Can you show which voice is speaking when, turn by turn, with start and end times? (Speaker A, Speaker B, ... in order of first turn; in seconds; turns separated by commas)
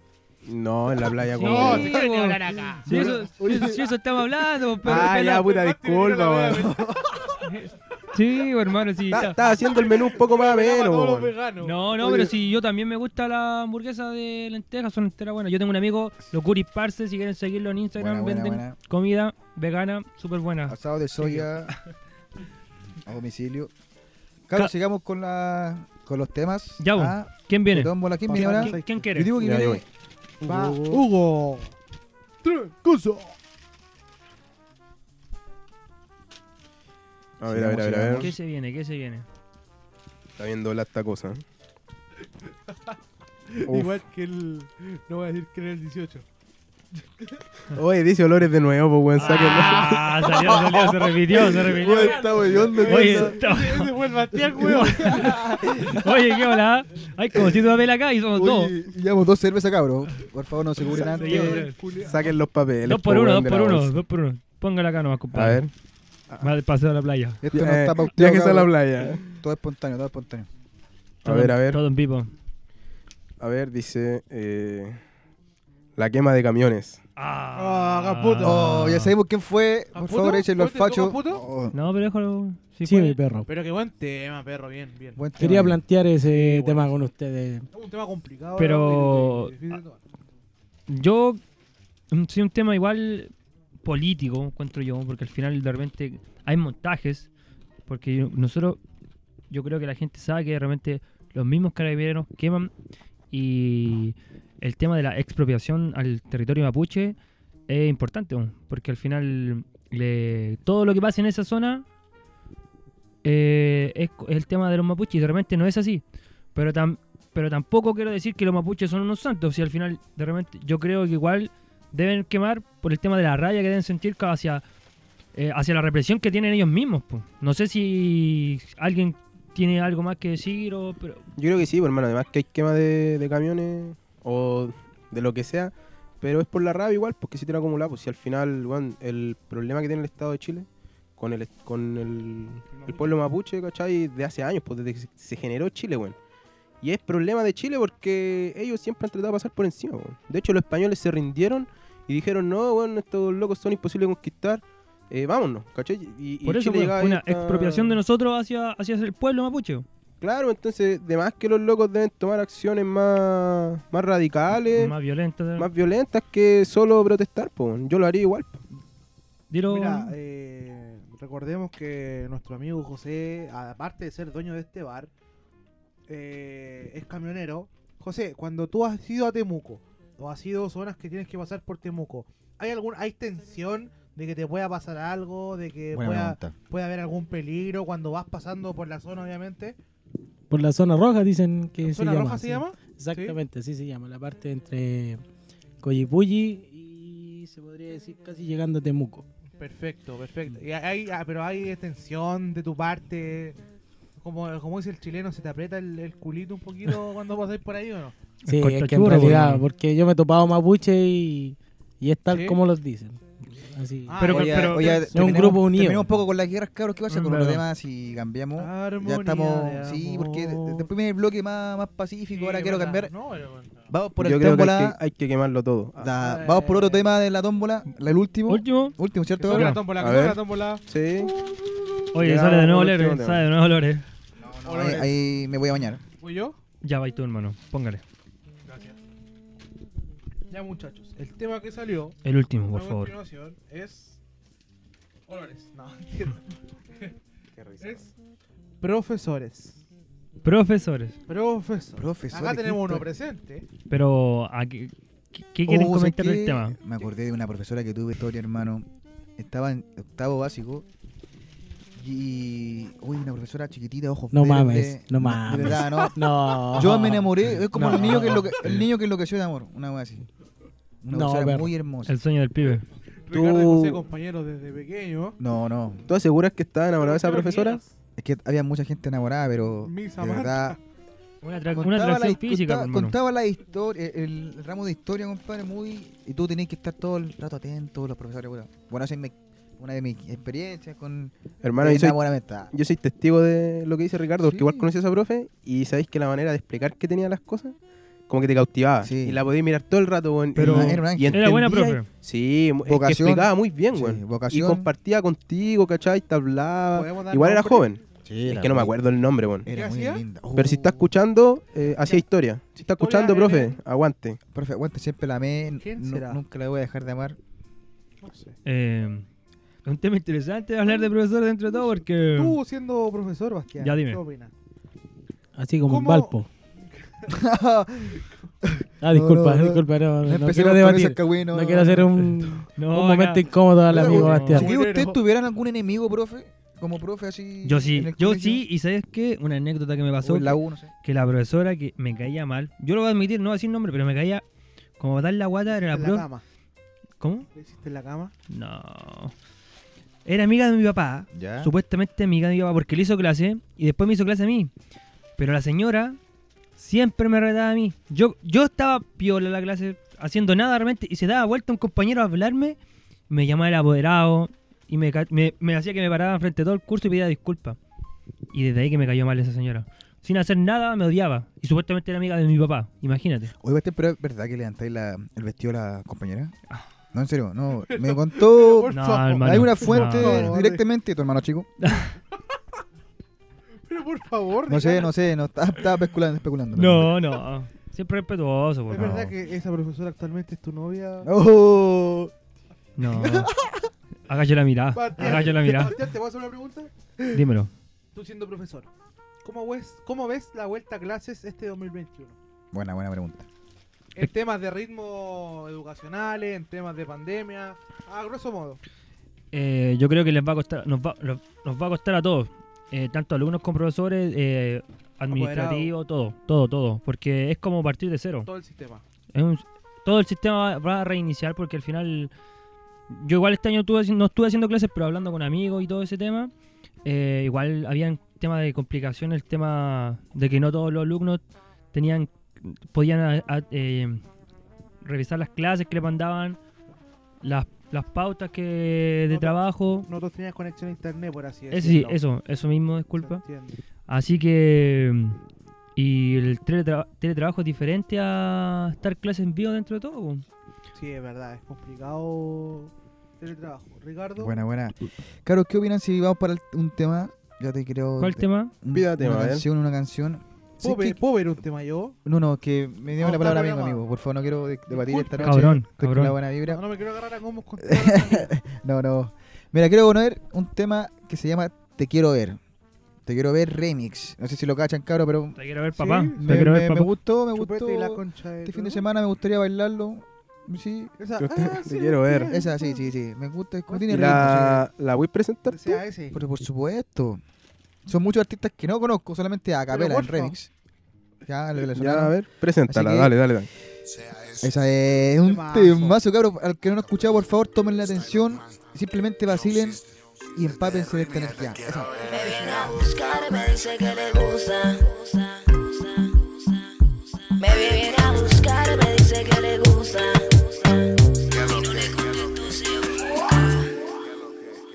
Speaker A: 0.5-2.0, Speaker B: 1.0-1.6, Speaker C: 1.4-5.2, Speaker D: 1.4-3.2, Speaker B: 2.8-3.9, Speaker A: 4.8-6.8, Speaker D: 4.8-7.5, Speaker B: 6.8-7.1, Speaker C: 7.5-9.4, Speaker A: 9.1-11.3, Speaker D: 9.2-12.3, Speaker C: 11.6-21.7, Speaker B: 18.0-18.8, Speaker B: 20.7-21.7, Speaker B: 22.9-23.7, Speaker B: 24.5-29.9, Speaker C: 26.8-29.3, Speaker D: 28.3-29.0, Speaker A: 29.4-29.8, Speaker D: 30.4-31.8, Speaker E: 30.7-30.9, Speaker D: 32.4-33.4, Speaker A: 37.4-38.3, Speaker B: 37.5-38.3, Speaker C: 38.2-39.2, Speaker A: 40.4-41.4, Speaker D: 42.7-43.0, Speaker D: 43.5-46.2, Speaker A: 43.7-43.9, Speaker A: 47.7-50.1, Speaker C: 49.1-52.2, Speaker D: 49.2-55.5, Speaker B: 50.5-53.4, Speaker C: 52.8-53.9, Speaker B: 54.5-56.2, Speaker C: 54.6-58.7, Speaker B: 57.4-57.6, Speaker B: 58.3-61.7, Speaker D: 60.9-62.4, Speaker C: 61.2-61.8, Speaker A: 62.0-64.0, Speaker C: 62.8-65.7, Speaker A: 65.3-65.7, Speaker C: 66.4-67.4, Speaker B: 67.4-70.5, Speaker A: 67.5-69.3, Speaker A: 71.2-71.8, Speaker C: 71.2-72.3, Speaker A: 73.4-75.0, Speaker A: 76.0-77.0, Speaker C: 77.2-79.1, Speaker D: 77.5-79.0, Speaker B: 78.4-81.7, Speaker D: 79.9-81.4, Speaker C: 81.7-83.2, Speaker E: 82.8-83.5, Speaker D: 83.5-85.7, Speaker B: 85.2-85.8, Speaker E: 85.4-87.7, Speaker D: 86.2-87.0, Speaker D: 87.7-90.0, Speaker C: 88.6-89.8, Speaker C: 90.9-91.4, Speaker C: 92.1-93.3, Speaker C: 93.8-97.3, Speaker C: 97.9-98.8, Speaker C: 99.5-102.7, Speaker C: 103.3-107.2, Speaker C: 107.7-111.8, Speaker C: 113.2-116.0, Speaker C: 116.5-124.6, Speaker C: 125.3-131.2, Speaker A: 131.4-146.2, Speaker D: 142.7-143.3, Speaker A: 146.8-158.0, Speaker C: 156.4-159.9, Speaker A: 160.2-164.9, Speaker C: 164.7-165.7, Speaker A: 165.6-168.6, Speaker C: 169.5-170.2, Speaker D: 169.7-175.1, Speaker D: 176.1-189.8, Speaker B: 185.9-186.6, Speaker E: 190.5-195.2, Speaker D: 191.8-193.4, Speaker E: 195.8-199.2, Speaker D: 199.6-203.6, Speaker D: 204.2-208.2, Speaker C: 208.5-209.7, Speaker E: 208.5-214.4, Speaker D: 212.3-212.6, Speaker D: 214.1-215.6, Speaker C: 214.2-215.0, Speaker B: 214.2-223.1, Speaker E: 215.1-216.1, Speaker C: 217.1-217.7, Speaker D: 218.6-220.9, Speaker D: 222.3-223.8, Speaker B: 223.9-225.0, Speaker A: 224.2-226.1, Speaker B: 226.0-229.8, Speaker D: 226.2-227.1, Speaker C: 228.5-228.9, Speaker D: 229.4-230.8, Speaker C: 229.5-229.8, Speaker A: 230.0-231.3, Speaker C: 232.1-234.1, Speaker A: 232.2-233.5, Speaker B: 234.4-236.0, Speaker D: 234.6-235.2, Speaker D: 236.2-236.6, Speaker C: 236.8-238.0, Speaker D: 238.7-239.0, Speaker D: 240.5-242.2, Speaker C: 242.2-243.2, Speaker D: 242.7-244.2, Speaker D: 245.3-247.1, Speaker A: 247.6-248.0, Speaker D: 247.8-248.1, Speaker D: 248.8-249.8, Speaker C: 250.4-251.2, Speaker D: 251.3-253.7, Speaker B: 252.0-253.1, Speaker C: 253.9-256.8, Speaker B: 255.7-260.9, Speaker B: 261.9-270.3, Speaker E: 264.3-268.6, Speaker B: 271.0-272.1, Speaker E: 271.1-271.7, Speaker C: 272.1-272.9, Speaker D: 273.3-275.4, Speaker A: 273.3-274.0, Speaker B: 275.4-276.1, Speaker A: 276.1-277.8, Speaker D: 277.0-277.9, Speaker B: 278.2-280.8, Speaker D: 279.8-280.8, Speaker C: 281.4-283.1, Speaker B: 281.7-292.7, Speaker A: 291.6-297.8, Speaker B: 294.4-294.9, Speaker A: 298.3-309.7, Speaker B: 299.0-299.4, Speaker B: 300.6-302.0, Speaker C: 300.6-302.1, Speaker B: 302.9-304.9, Speaker D: 306.9-307.9, Speaker B: 308.2-308.9, Speaker B: 309.6-311.1, Speaker D: 309.7-310.2, Speaker A: 310.6-314.4, Speaker D: 312.0-312.2, Speaker D: 312.8-313.8, Speaker B: 314.5-317.4, Speaker D: 315.8-316.4, Speaker D: 318.2-318.6, Speaker C: 318.6-319.3, Speaker C: 319.9-322.6, Speaker D: 321.8-324.5, Speaker C: 323.8-324.2, Speaker E: 325.6-326.5, Speaker D: 325.9-326.4, Speaker B: 327.3-332.1, Speaker E: 329.0-334.7, Speaker C: 332.8-334.6, Speaker B: 333.9-338.6, Speaker D: 334.5-335.2, Speaker C: 337.6-344.4, Speaker B: 340.2-340.9, Speaker C: 345.0-346.3, Speaker D: 345.7-346.4, Speaker C: 347.2-347.5, Speaker D: 347.5-348.3, Speaker C: 348.5-349.3, Speaker C: 350.2-354.7, Speaker B: 351.3-351.7, Speaker C: 355.4-356.2, Speaker C: 356.8-362.8, Speaker C: 363.3-367.8, Speaker C: 368.5-373.5, Speaker B: 373.6-376.6, Speaker B: 377.1-381.7, Speaker D: 377.9-380.8, Speaker C: 378.9-380.5, Speaker C: 381.8-382.1, Speaker D: 383.9-385.1, Speaker B: 384.7-387.2, Speaker C: 386.7-389.3, Speaker D: 388.9-391.3, Speaker B: 391.2-392.3, Speaker C: 393.0-393.5, Speaker B: 393.2-393.7, Speaker C: 394.3-396.0, Speaker D: 394.9-397.4, Speaker C: 397.3-397.7, Speaker D: 398.1-398.9, Speaker D: 399.4-402.4, Speaker B: 402.7-403.5, Speaker D: 404.1-408.8, Speaker C: 409.5-418.5, Speaker D: 415.3-415.9, Speaker D: 418.5-419.0, Speaker C: 419.3-422.3, Speaker C: 423.1-426.5, Speaker C: 427.1-431.4, Speaker C: 431.9-434.2, Speaker C: 435.0-436.6, Speaker C: 437.4-440.1, Speaker D: 439.3-442.2, Speaker C: 441.7-443.4, Speaker D: 443.2-443.8, Speaker C: 444.1-445.4, Speaker C: 446.0-450.4, Speaker D: 451.0-454.6, Speaker B: 454.4-461.2, Speaker C: 458.2-458.7, Speaker A: 458.9-459.6, Speaker D: 460.8-462.2, Speaker B: 462.2-466.8, Speaker D: 463.2-464.0, Speaker D: 464.9-465.8, Speaker C: 465.4-466.4, Speaker D: 466.6-468.5, Speaker B: 467.8-472.6, Speaker B: 473.3-475.6, Speaker C: 475.6-477.1, Speaker D: 476.0-476.7, Speaker B: 476.4-481.1, Speaker D: 477.6-479.0, Speaker D: 481.2-483.1, Speaker A: 481.4-482.5, Speaker B: 482.5-484.9, Speaker D: 483.9-484.3, Speaker A: 484.1-486.0, Speaker D: 485.7-486.4, Speaker B: 486.3-487.4, Speaker B: 488.1-490.7, Speaker D: 489.9-490.6, Speaker B: 491.4-493.3, Speaker A: 491.9-493.7, Speaker B: 494.5-502.3, Speaker D: 495.4-496.2, Speaker F: 502.3-506.9, Speaker D: 502.3-503.0, Speaker F: 507.5-513.8